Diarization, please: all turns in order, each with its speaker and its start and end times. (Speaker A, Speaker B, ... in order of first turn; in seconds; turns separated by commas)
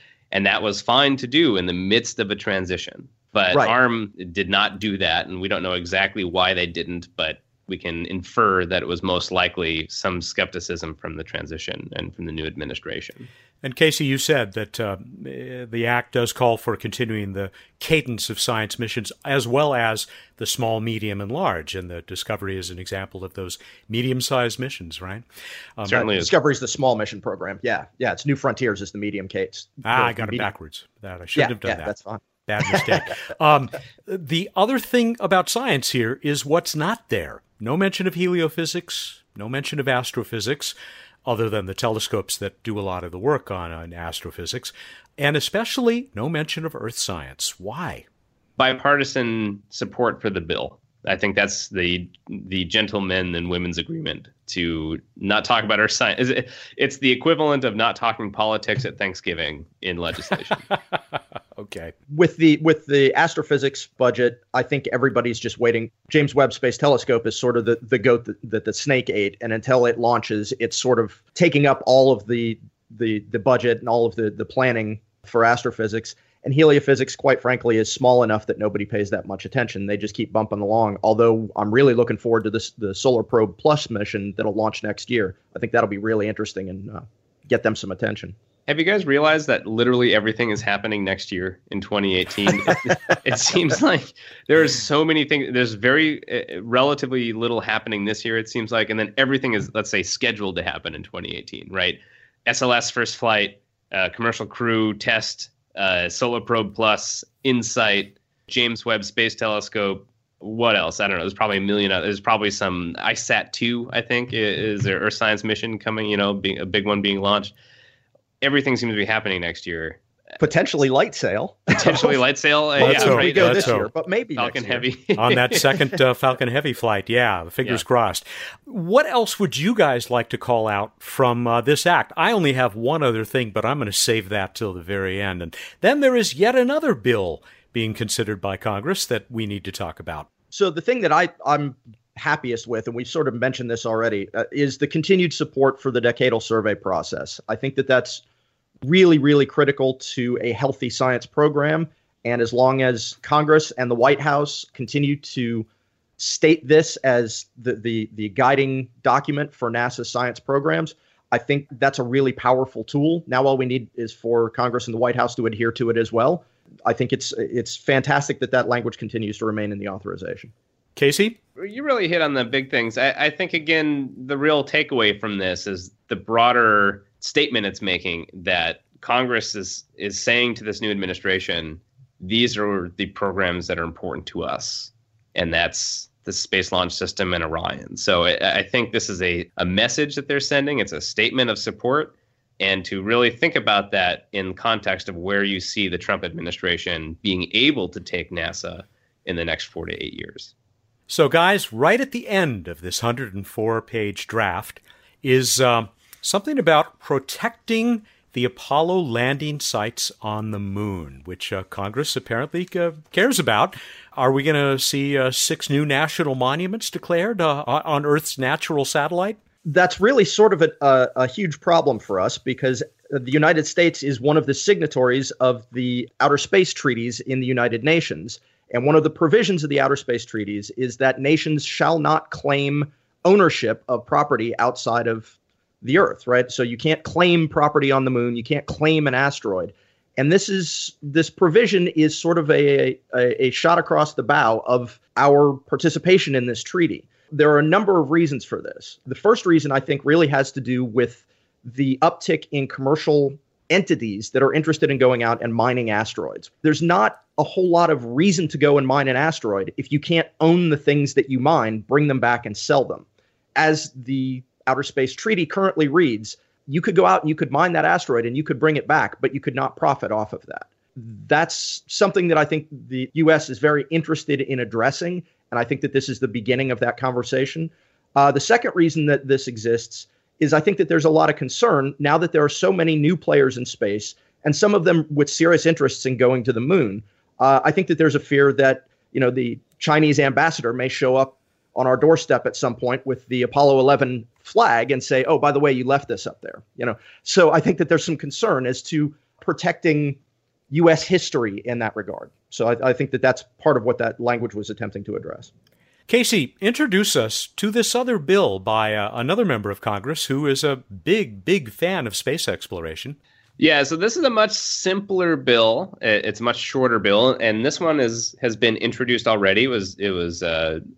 Speaker A: 0.3-13.3, Speaker B: 13.6-25.2, Speaker B: 25.8-26.1, Speaker A: 25.9-26.3, Speaker C: 26.0-30.5, Speaker B: 29.9-31.9, Speaker C: 31.4-33.1, Speaker B: 32.5-48.0, Speaker A: 48.6-60.6, Speaker B: 60.7-61.0, Speaker B: 61.5-61.9, Speaker C: 62.1-88.3, Speaker A: 88.7-117.5, Speaker A: 118.4-120.0, Speaker C: 120.4-122.2, Speaker A: 121.7-123.8, Speaker B: 122.8-123.9, Speaker C: 122.8-124.9, Speaker A: 124.4-125.7, Speaker B: 125.2-140.3, Speaker C: 140.5-148.2, Speaker C: 148.8-155.7, Speaker C: 156.2-170.5, Speaker B: 171.0-171.4, Speaker A: 171.6-200.5, Speaker B: 201.1-219.4, Speaker C: 219.7-263.1, Speaker C: 263.6-300.2, Speaker C: 300.7-305.5, Speaker B: 306.1-313.2, Speaker A: 313.6-320.8